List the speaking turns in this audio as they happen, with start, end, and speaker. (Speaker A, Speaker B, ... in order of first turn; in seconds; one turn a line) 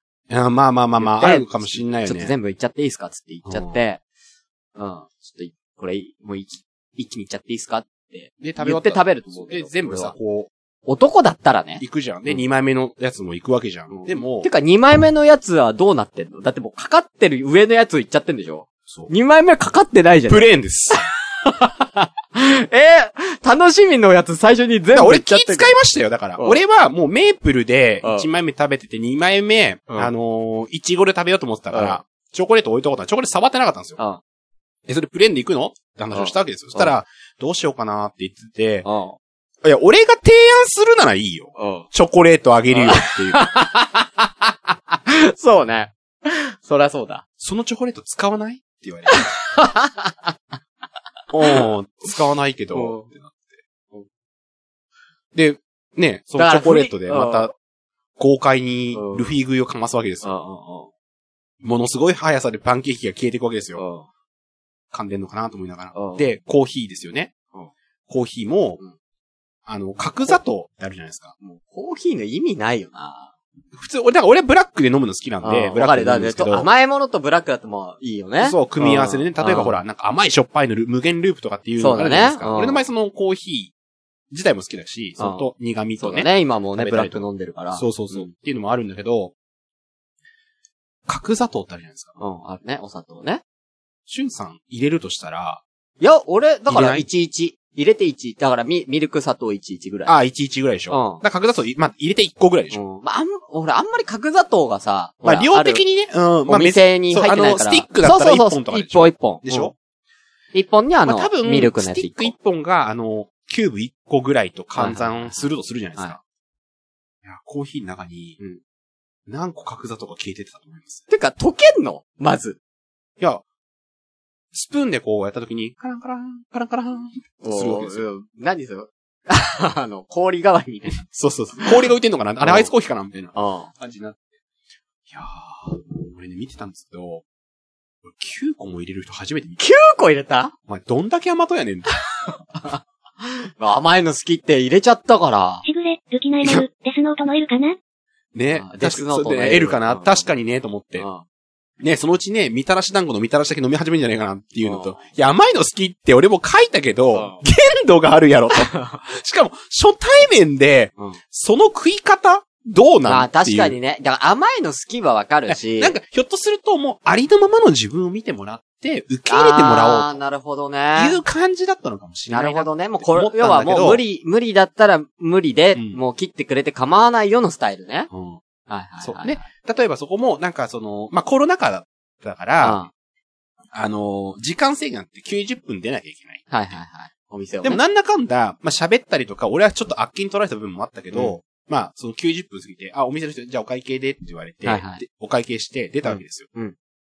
Speaker A: 0.3-2.4
Speaker B: 1.0-4.0
Speaker A: 3.5-3.8
Speaker B: 4.8-10.2
Speaker A: 8.4-10.5
Speaker B: 10.9-12.4
Speaker A: 11.8-14.5
Speaker B: 13.9-25.8
Speaker A: 20.3-21.0
Speaker A: 24.9-34.0
Speaker B: 28.0-28.3
Speaker B: 31.7-32.0
Speaker A: 34.9-38.9
Speaker B: 36.1-36.9
Speaker B: 38.8-39.2
Speaker A: 39.6-43.5
Speaker B: 41.6-41.9
Speaker B: 42.7-47.2
Speaker A: 47.4-49.3
Speaker B: 49.1-50.4
Speaker A: 51.3-53.6
Speaker B: 52.7-53.1
Speaker A: 55.3-57.5
Speaker B: 56.4-57.5
Speaker A: 58.2-60.3
Speaker B: 59.0-59.3
Speaker B: 60.2-60.9
Speaker A: 61.6-63.8
Speaker B: 63.8-64.1
Speaker A: 64.9-67.3
Speaker B: 66.0-66.3
Speaker A: 68.1-68.8
Speaker A: 69.7-71.3
Speaker B: 70.0-70.4
Speaker B: 71.4-73.3
Speaker A: 73.7-76.7
Speaker B: 75.4-79.8
Speaker A: 78.4-83.7
Speaker B: 81.8-82.8
Speaker A: 84.3-89.3
Speaker B: 85.2-85.5
Speaker B: 86.0-88.3
Speaker A: 91.1-92.2
Speaker B: 92.2-93.4
Speaker A: 94.1-95.6
Speaker B: 96.0-100.2
Speaker A: 96.7-97.0
Speaker A: 100.1-102.8
Speaker B: 100.9-101.2
Speaker B: 102.7-105.8
Speaker A: 105.2-109.8
Speaker B: 106.5-109.7
Speaker B: 110.5-112.3
Speaker A: 111.0-116.2
Speaker B: 114.7-116.2
Speaker A: 117.2-118.4
Speaker A: 119.3-121.0
Speaker B: 121.1-122.6
Speaker A: 124.5-128.1
Speaker B: 127.4-131.1
Speaker A: 130.9-134.3
Speaker B: 132.4-132.7
Speaker B: 133.3-133.7
Speaker A: 135.1-137.2
Speaker A: 138.1-139.7
Speaker B: 139.6-140.5
Speaker A: 140.7-141.9
Speaker B: 142.6-145.6
Speaker C: 145.7-147.8
Speaker A: 148.3-151.1
Speaker B: 148.5-150.3
Speaker B: 151.0-151.2
Speaker A: 151.8-163.8
Speaker B: 154.6-155.0
Speaker B: 157.1-157.4
Speaker B: 158.7-159.0
Speaker B: 163.1-166.0
Speaker A: 165.5-170.2
Speaker B: 169.3-171.2
Speaker A: 170.9-174.0
Speaker B: 172.3-178.1
Speaker A: 175.8-176.0
Speaker A: 178.1-178.4
Speaker B: 178.7-179.5
Speaker A: 179.0-182.8
Speaker B: 182.6-182.9
Speaker A: 183.7-186.8
Speaker B: 186.5-187.8
Speaker A: 187.6-196.5
Speaker B: 191.1-191.4
Speaker B: 194.7-195.0
Speaker B: 196.0-196.8